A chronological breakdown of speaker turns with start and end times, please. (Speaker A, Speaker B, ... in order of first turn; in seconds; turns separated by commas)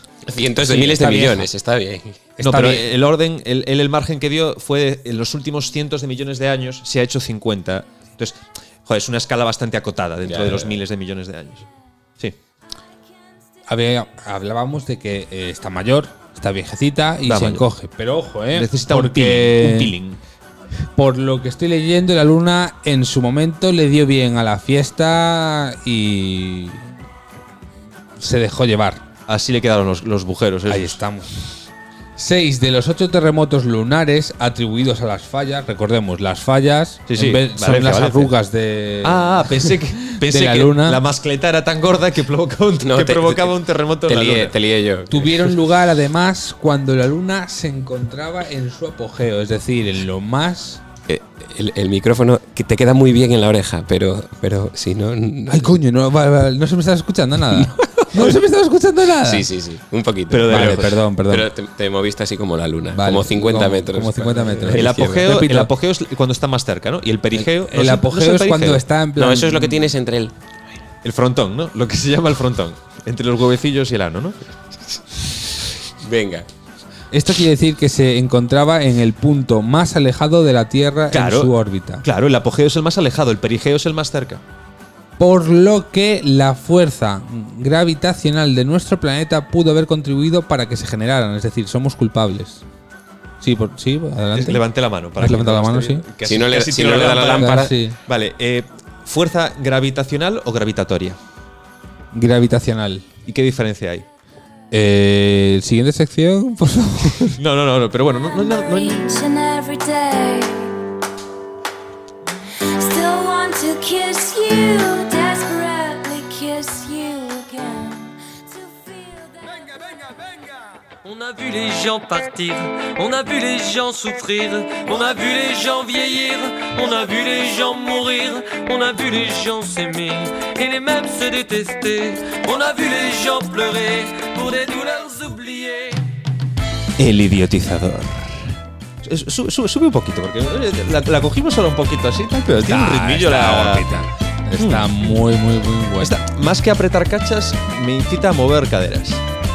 Speaker A: 0.3-2.2, Speaker B: 0.6-1.5, Speaker C: 0.7-1.2, Speaker B: 2.4-2.9, Speaker C: 2.4-11.7, Speaker A: 10.2-10.8, Speaker B: 13.7-19.9, Speaker C: 17.2-17.7, Speaker C: 18.5-20.2, Speaker B: 21.0-26.9, Speaker B: 28.2-29.0, Speaker C: 29.3-31.0, Speaker B: 30.7-31.4, Speaker B: 32.2-41.0, Speaker C: 37.1-38.4, Speaker C: 39.0-44.6, Speaker A: 42.8-45.5, Speaker B: 45.1-50.8, Speaker A: 51.1-55.8, Speaker B: 55.5-59.5, Speaker A: 57.5-58.3, Speaker A: 59.2-65.4, Speaker C: 60.3-61.0, Speaker B: 60.5-61.5, Speaker B: 62.9-65.7, Speaker C: 64.7-68.8, Speaker B: 67.7-69.9, Speaker A: 69.2-70.3, Speaker C: 71.0-74.4, Speaker A: 76.0-76.5, Speaker B: 77.1-82.0, Speaker C: 81.1-84.4, Speaker B: 85.2-92.6, Speaker B: 93.4-94.7, Speaker C: 94.3-101.2, Speaker B: 95.2-96.0, Speaker A: 96.2-97.8, Speaker B: 97.1-98.0, Speaker B: 102.1-103.1, Speaker C: 103.3-104.1, Speaker B: 104.7-107.4, Speaker C: 107.2-109.1, Speaker D: 108.3-110.8, Speaker D: 112.8-119.8, Speaker E: 121.0-136.1, Speaker C: 137.0-143.9, Speaker B: 142.6-146.2, Speaker C: 144.6-144.9, Speaker C: 146.0-149.2